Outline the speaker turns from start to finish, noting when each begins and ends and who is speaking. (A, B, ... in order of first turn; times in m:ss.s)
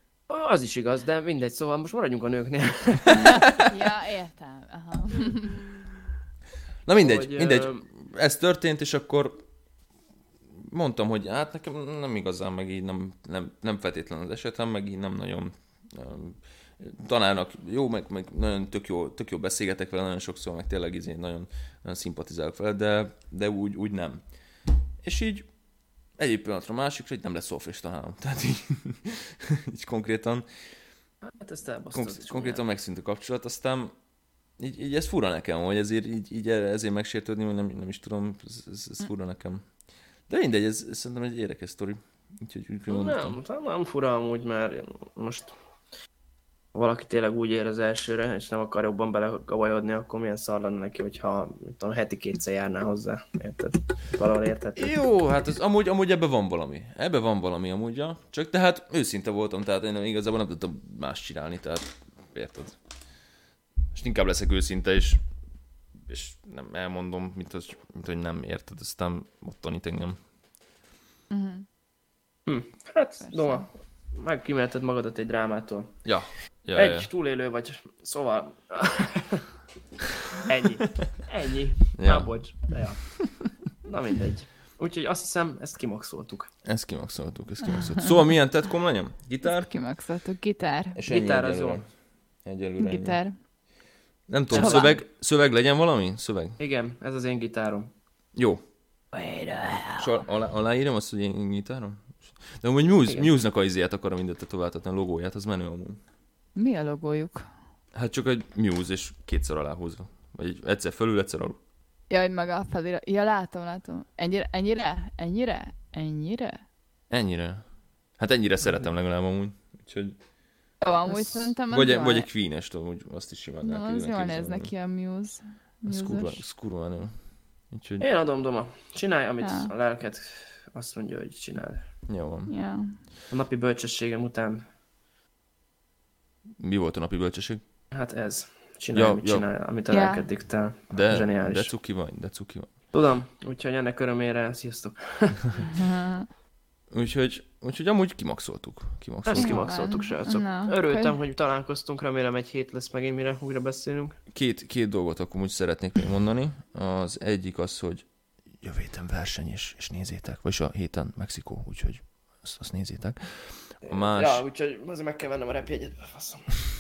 0:00.3-0:03.5 A
0:03.2-0:05.6 B
0:05.2-0:05.9 A
0:06.9-0:09.4 C
0:07.0-0:07.8 A
0:10.6-0:24.2 C
0:25.0-0:25.5 C
0:26.2-0:30.4 C
0:31.2-0:32.6 A
0:31.9-0:34.0 C
0:34.6-0:39.6 C
0:40.3-0:43.4 C
0:42.9-0:45.5 A
0:46.7-0:54.9 A
0:54.8-1:02.8 C
1:03.9-1:05.2 C
1:06.0-1:10.2 C
1:11.3-1:11.6 B
1:12.5-1:16.0 A
1:13.2-1:13.7 B
1:16.0-1:17.1 C
1:16.8-1:19.5 A
1:20.3-1:23.2 A
1:22.0-1:22.3 C
1:23.8-1:26.5 A
1:26.6-1:29.7 C
1:29.4-1:31.0 B
1:31.0-1:31.9 C
1:31.1-1:31.8 A
1:32.4-1:33.2 C
1:32.8-1:33.4 B
1:34.3-1:36.6 C
1:34.5-1:35.0 A
1:34.6-1:35.0 B
1:36.6-1:37.9 A
1:38.4-1:38.6 C
1:39.1-1:40.2 B
1:40.0-1:46.0 C
1:46.6-1:47.5 B
1:48.0-1:51.6 C
1:52.1-1:56.6 B
1:57.1-1:57.6 C
1:58.2-2:00.2 C
2:00.8-2:02.3 B
2:01.1-2:04.7 C
2:03.6-2:06.4 B
2:05.9-2:07.2 C
2:07.7-2:08.0 C
2:08.0-2:11.8 A
2:09.4-2:09.7 B
2:12.1-2:12.5 C
2:12.5-2:12.9 B
2:13.3-2:14.7 A
2:16.6-2:17.6 C
2:17.9-2:21.7 A
2:18.9-2:19.5 C
2:19.9-2:20.3 B
2:20.9-2:22.7 C
2:22.9-2:25.7 A
2:25.7-2:26.3 B
2:26.9-2:29.6 C
2:29.3-2:34.2 A
2:29.4-2:31.2 B
2:34.3-2:38.0 C
2:38.6-2:44.4 C
2:43.8-2:46.6 A